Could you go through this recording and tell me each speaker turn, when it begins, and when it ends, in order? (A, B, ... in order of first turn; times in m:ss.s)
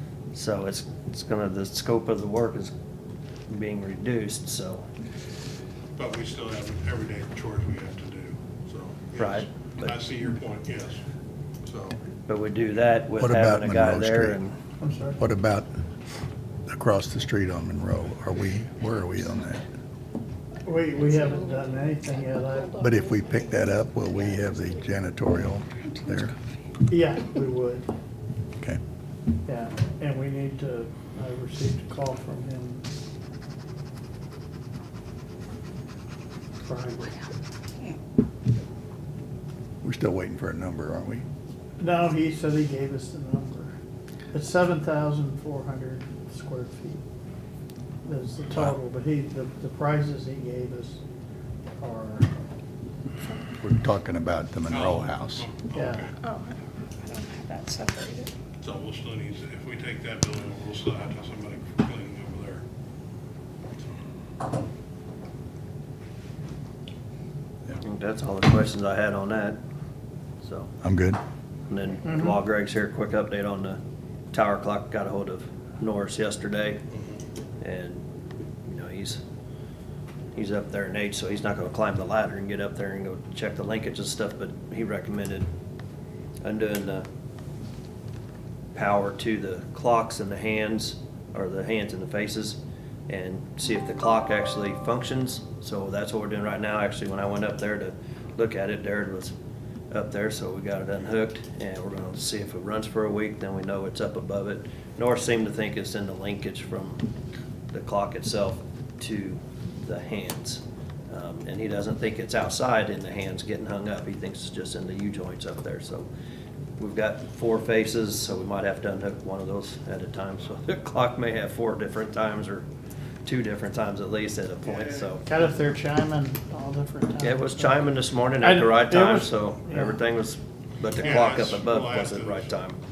0:00.3-0:02.7 A
0:03.5-0:04.8 A
0:06.0-0:11.0 B
0:09.2-0:10.0 A
0:11.6-0:12.0 B
0:12.3-0:14.6 A
0:13.2-0:14.4 C
0:14.8-0:15.2 D
0:15.2-0:15.7 C
0:16.6-0:19.6 C
0:20.6-0:22.7 D
0:20.9-0:24.9 E
0:22.8-0:26.3 C
0:26.9-0:27.9 D
0:29.4-0:32.8 D
0:36.6-0:37.3 D
0:39.8-0:41.2 C
0:41.8-0:43.7 D
0:44.3-0:47.0 D
0:48.0-0:51.0 D
0:48.5-0:48.8 C
0:51.8-0:52.3 D
0:53.6-0:55.4 C
0:54.7-0:56.1 B
0:55.7-0:56.1 D
0:56.2-0:58.3 E
0:58.6-1:02.6 B
1:07.8-1:09.6 A
1:10.4-1:10.7 A
1:10.8-1:11.2 C
1:11.7-1:13.8 A
1:12.0-1:12.4 D
1:14.3-1:16.8 A
1:16.9-1:17.2 B
1:17.6-1:18.0 A
1:18.6-1:19.2 A
1:20.3-1:25.5 A
1:26.4-1:27.0 A
1:28.7-1:39.3 A
1:39.9-1:47.1 A
1:47.7-1:56.1 A
1:56.8-2:02.6 A
2:03.2-2:05.3 A
2:04.7-2:05.1 B
2:05.2-2:07.9 D
2:07.2-2:12.8 A
2:08.4-2:10.0 D
2:11.0-2:12.6 B